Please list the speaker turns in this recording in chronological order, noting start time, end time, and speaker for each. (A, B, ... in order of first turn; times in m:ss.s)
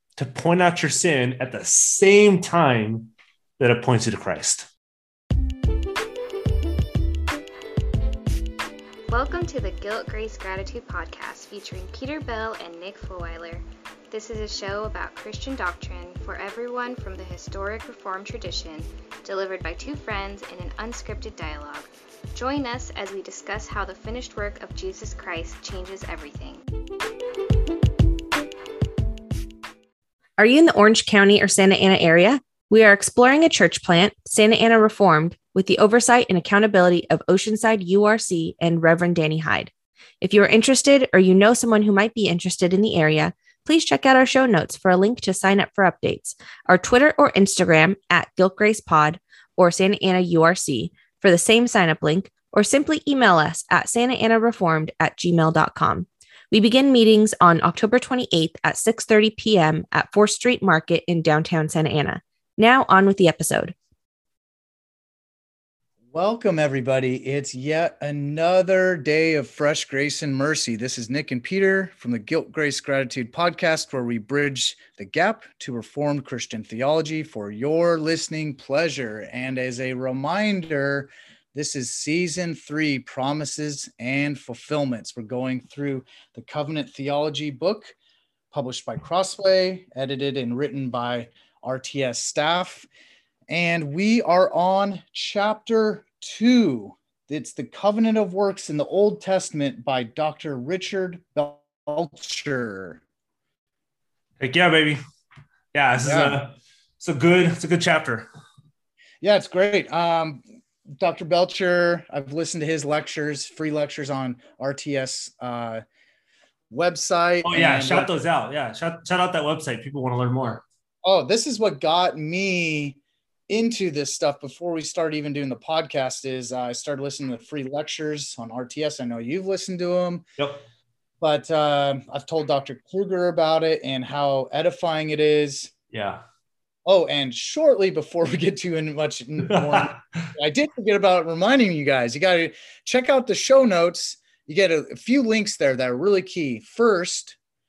0:00.2-0:04.7 A
0:09.1-0:26.6 B
0:30.4-1:03.8 C
1:06.1-1:27.9 D
1:28.5-1:32.9 D
1:33.5-1:43.0 D
1:44.4-1:45.0 A
1:45.7-1:48.3 A
1:46.0-1:46.4 D
1:49.2-1:55.8 D
1:56.7-1:58.1 D
1:57.4-2:00.6 A
2:01.0-2:03.0 D
2:03.5-2:10.3 D
2:10.4-2:10.6 A
2:11.2-2:15.7 D
2:15.9-2:16.2 A
2:16.8-2:27.4 D
2:19.4-2:20.3 A